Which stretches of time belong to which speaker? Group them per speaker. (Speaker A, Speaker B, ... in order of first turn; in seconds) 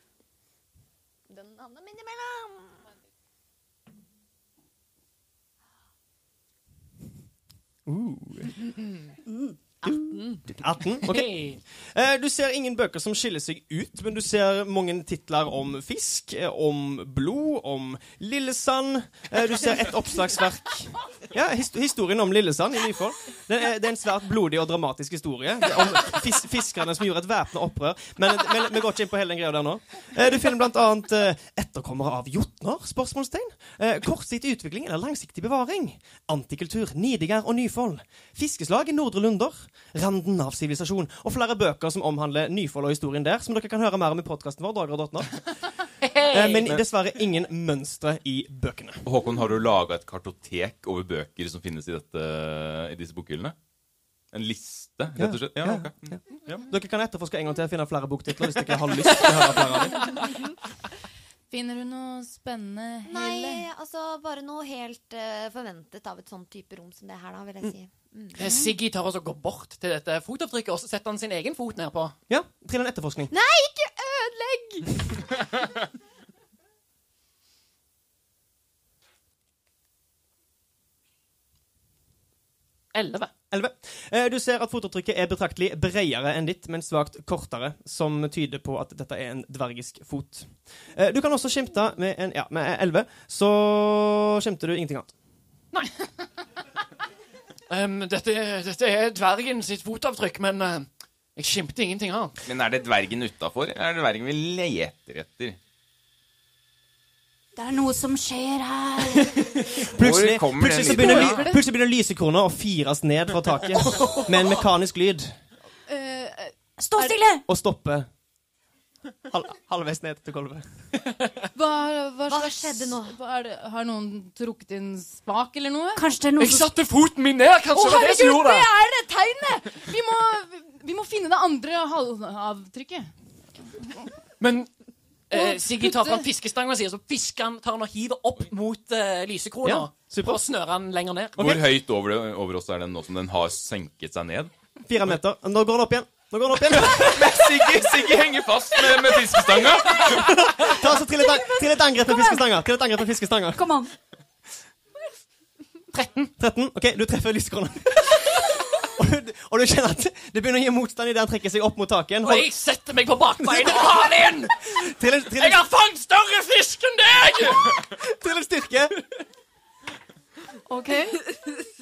Speaker A: 1.3-2.9, 9.8-10.4, 63.0-68.4, 73.3-75.3, 122.3-123.1
Speaker B: 7.8-8.6, 9.8-45.3, 46.3-49.0, 55.2-60.1, 72.3-73.3, 83.5-95.1, 109.9-115.3, 117.5-118.1, 119.3-120.7, 139.6-140.4, 144.8-147.5, 150.1-153.7, 156.4-162.5, 163.4-164.2, 164.7-165.6, 168.0-168.9
Speaker C: 9.3-9.6, 107.5-109.4, 114.0-114.3, 116.8-117.4, 125.9-126.7, 151.2-152.5, 153.5-153.9, 170.7-171.2
Speaker D: 11.0-11.6, 46.0-46.7, 68.3-72.2, 82.9-83.3, 95.7-96.0, 97.7-102.3, 126.4-128.7, 134.4-134.7, 135.3-141.6, 155.9-156.3, 162.2-164.8, 165.3-167.9
Speaker E: 49.0-53.5, 54.3-56.6, 102.5-105.6, 109.8-111.5, 141.4-144.5, 146.7-150.4
Speaker F: 61.5-63.6, 110.9-111.6, 115.9-117.2, 121.5-126.0, 127.7-133.1, 133.7-134.1, 135.3-136.2